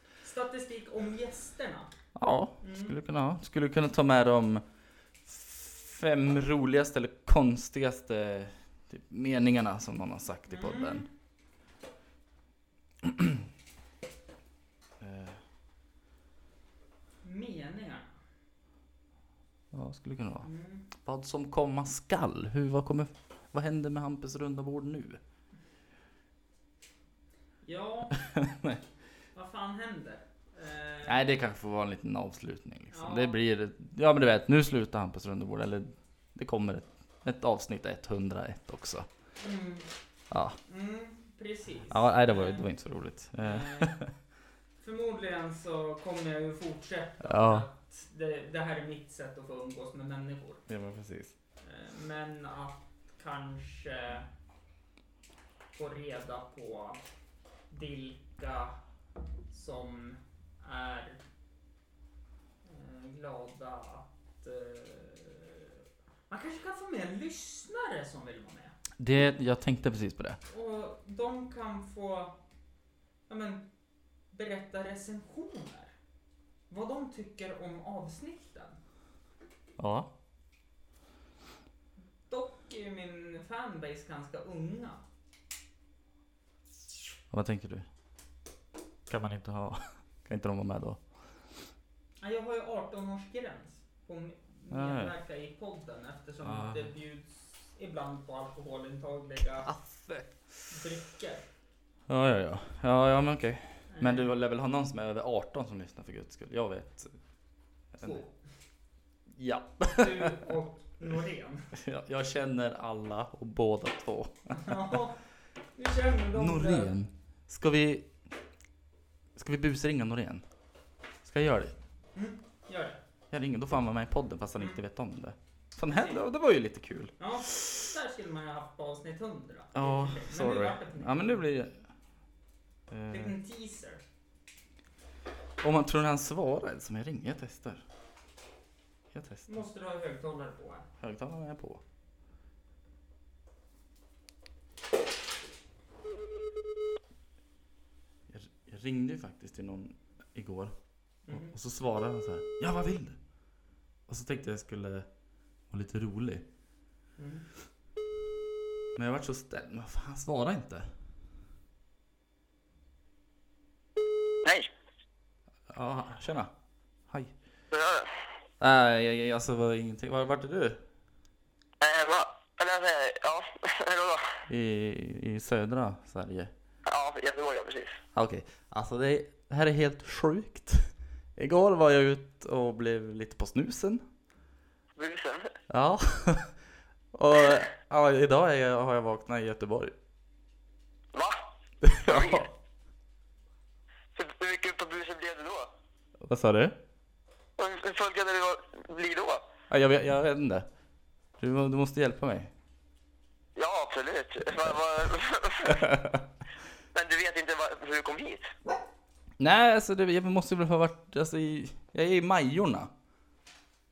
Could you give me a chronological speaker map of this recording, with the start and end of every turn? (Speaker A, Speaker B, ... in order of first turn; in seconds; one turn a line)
Speaker A: 0.2-1.9
Speaker B: 2.1-4.6
Speaker A: 2.6-3.0
Speaker B: 5.2-11.1
Speaker A: 10.5-11.1
Speaker B: 13.0-13.4
Speaker B: 15.0-15.4
Speaker A: 17.2-18.1
Speaker B: 19.7-25.2
Speaker A: 20.4-20.9
Speaker A: 27.6-28.2
Speaker B: 28.2-28.8
Speaker A: 29.4-31.2
Speaker B: 31.1-39.1
Speaker A: 32.9-33.4
Speaker A: 39.4-39.9
Speaker B: 40.3-40.6
Speaker A: 40.7-42.7
Speaker B: 41.9-44.1
Speaker A: 43.4-44.0
Speaker A: 44.8-50.6
Speaker B: 47.2-47.7
Speaker B: 50.7-51.3
Speaker A: 51.6-54.3
Speaker A: 55.8-57.0
Speaker A: 57.7-58.8
Speaker A: 59.5-61.2
Speaker A: 62.6-65.8
Speaker A: 66.3-68.8
Speaker B: 69.0-70.4
Speaker A: 70.5-72.3
Speaker A: 73.3-73.7
Speaker A: 74.3-75.9
Speaker A: 76.7-78.8
Speaker B: 79.8-80.1
Speaker A: 82.3-85.0
Speaker B: 87.3-87.9
Speaker B: 89.1-91.0
Speaker A: 92.2-99.7
Speaker B: 94.7-95.1
Speaker B: 96.4-96.9
Speaker B: 99.6-100.3
Speaker A: 100.7-101.4
Speaker B: 102.1-107.2
Speaker A: 103.9-104.3
Speaker B: 107.9-108.2
Speaker A: 108.0-108.3
Speaker B: 109.3-110.4
Speaker A: 109.9-111.7
Speaker B: 111.7-115.0
Speaker A: 114.5-115.2
Speaker A: 115.8-116.9
Speaker B: 116.3-118.1
Speaker B: 119.4-120.5
Speaker B: 121.2-121.8
Speaker A: 122.2-123.0
Speaker B: 123.3-127.1
Speaker A: 125.9-126.2
Speaker A: 127.2-131.4
Speaker B: 129.7-131.8
Speaker B: 132.9-133.3
Speaker A: 133.1-134.0
Speaker B: 135.6-137.8
Speaker B: 139.1-139.6
Speaker A: 139.5-140.9
Speaker B: 141.0-141.8
Speaker B: 148.3-150.8
Speaker A: 151.3-151.6
Speaker B: 151.3-153.2
Speaker B: 154.1-155.1
Speaker B: 155.7-156.4
Speaker A: 157.2-157.5
Speaker B: 158.9-160.9
Speaker C: 164.4-164.7
Speaker B: 165.7-166.5
Speaker C: 167.7-168.1
Speaker B: 168.6-170.8
Speaker C: 171.8-174.2
Speaker B: 174.5-176.5
Speaker C: 176.9-178.0
Speaker B: 178.2-184.0
Speaker C: 185.0-185.5
Speaker B: 185.7-186.6
Speaker B: 187.1-189.9
Speaker B: 191.8-192.5
Speaker C: 192.0-192.5
Speaker C: 194.2-195.7
Speaker B: 196.2-196.8
Speaker C: 197.6-199.4
Speaker B: 199.7-200.7
Speaker B: 201.4-202.5
Speaker C: 203.6-205.8
Speaker B: 205.7-206.2
Speaker C: 206.9-208.5
Speaker B: 209.4-212.9